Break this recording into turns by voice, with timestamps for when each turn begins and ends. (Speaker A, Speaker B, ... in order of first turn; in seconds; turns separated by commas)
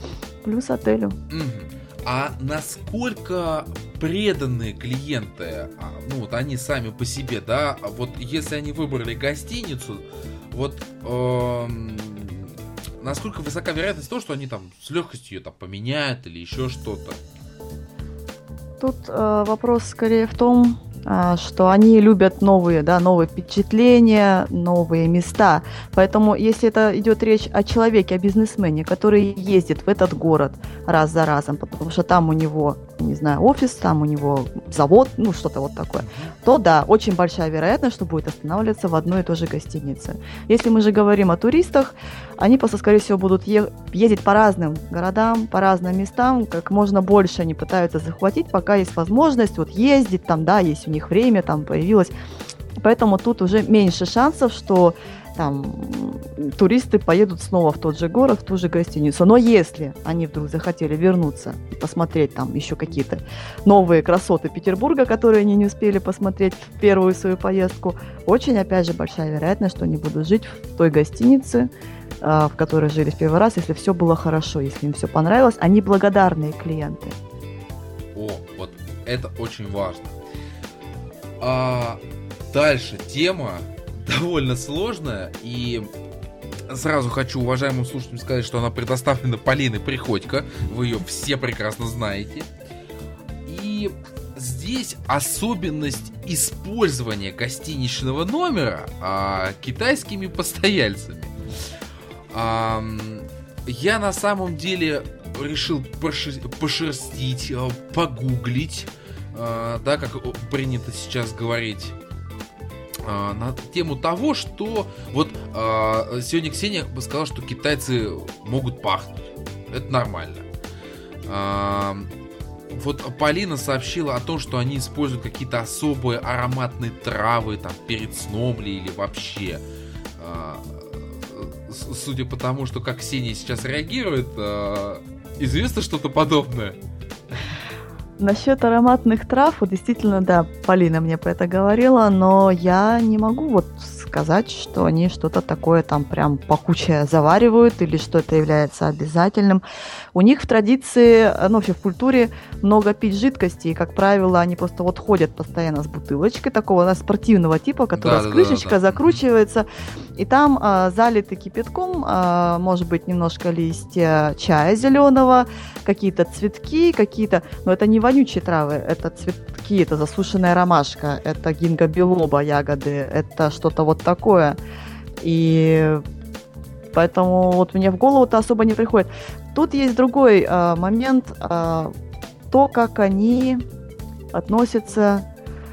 Speaker A: 0.4-1.2, Speaker B: 1.3-17.2, Speaker A: 18.8-52.1, Speaker B: 36.0-36.3, Speaker A: 52.8-71.7, Speaker A: 72.2-77.2, Speaker B: 78.1-80.2, Speaker B: 81.4-85.9, Speaker B: 86.7-92.5, Speaker B: 93.5-101.4, Speaker B: 102.3-112.0, Speaker B: 113.0-120.5, Speaker B: 121.2-122.1, Speaker B: 122.7-129.6, Speaker B: 130.2-136.8, Speaker A: 138.2-149.6, Speaker A: 150.1-159.7, Speaker B: 157.9-159.2, Speaker A: 160.2-174.6, Speaker A: 175.2-176.0, Speaker A: 176.9-181.9, Speaker A: 182.5-183.6, Speaker A: 184.3-185.2